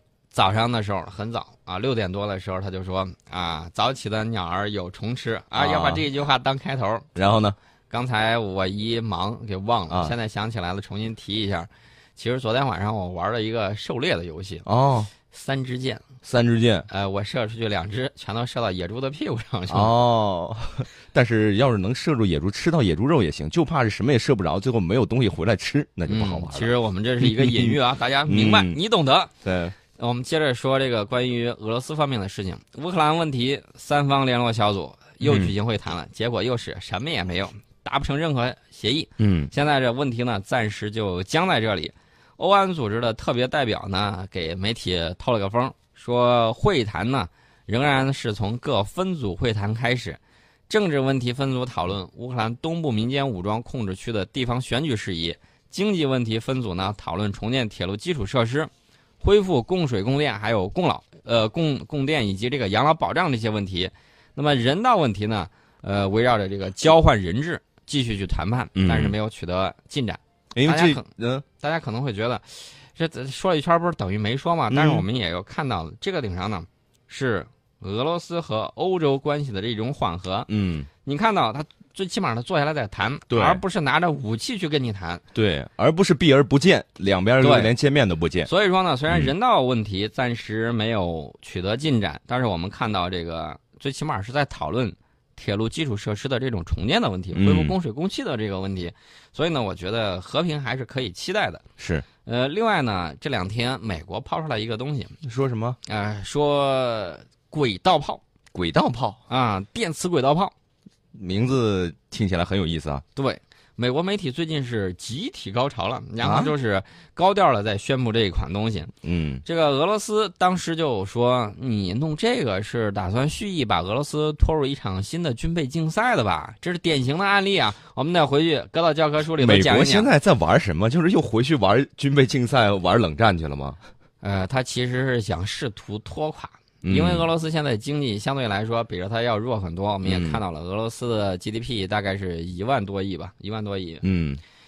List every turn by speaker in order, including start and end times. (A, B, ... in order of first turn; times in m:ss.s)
0:00.3-0:07.1 A
0:05.5-0:06.0 B
0:07.1-0:07.6 B
0:07.9-0:14.6 A
0:14.6-0:15.1 B
0:15.3-0:16.0 A
0:16.2-0:16.9 B
0:16.9-0:20.0 A
0:19.7-0:27.8 B
0:26.1-0:29.3 A
0:28.3-0:28.8 B
0:29.4-0:29.7 B
0:30.0-0:58.7 A
0:35.2-0:35.5 B
0:39.2-0:39.5 B
0:59.2-1:11.0 A
1:08.8-1:09.1 B
1:10.5-1:11.4 B
1:11.6-1:20.5 A
1:14.7-1:15.0 B
1:20.5-1:20.9 B
1:21.0-1:25.2 A
1:23.3-1:23.6 B
1:25.3-1:28.5 B
1:27.4-1:27.7 A
1:28.4-1:41.6 A
1:37.3-1:37.7 B
1:41.8-1:42.0 B
1:42.2-1:45.2 A
1:45.2-1:45.8 B
1:45.9-1:48.2 A
1:48.5-1:49.2 B
1:49.3-1:50.5 A
1:51.1-1:53.0 B
1:53.1-1:58.9 A
1:56.2-1:56.5 B
1:59.0-1:59.4 B
1:59.4-2:10.1 A
2:09.4-2:13.8 B
2:14.2-2:24.0 A
2:16.8-2:17.3 B
2:20.0-2:20.4 B
2:24.0-2:24.4 B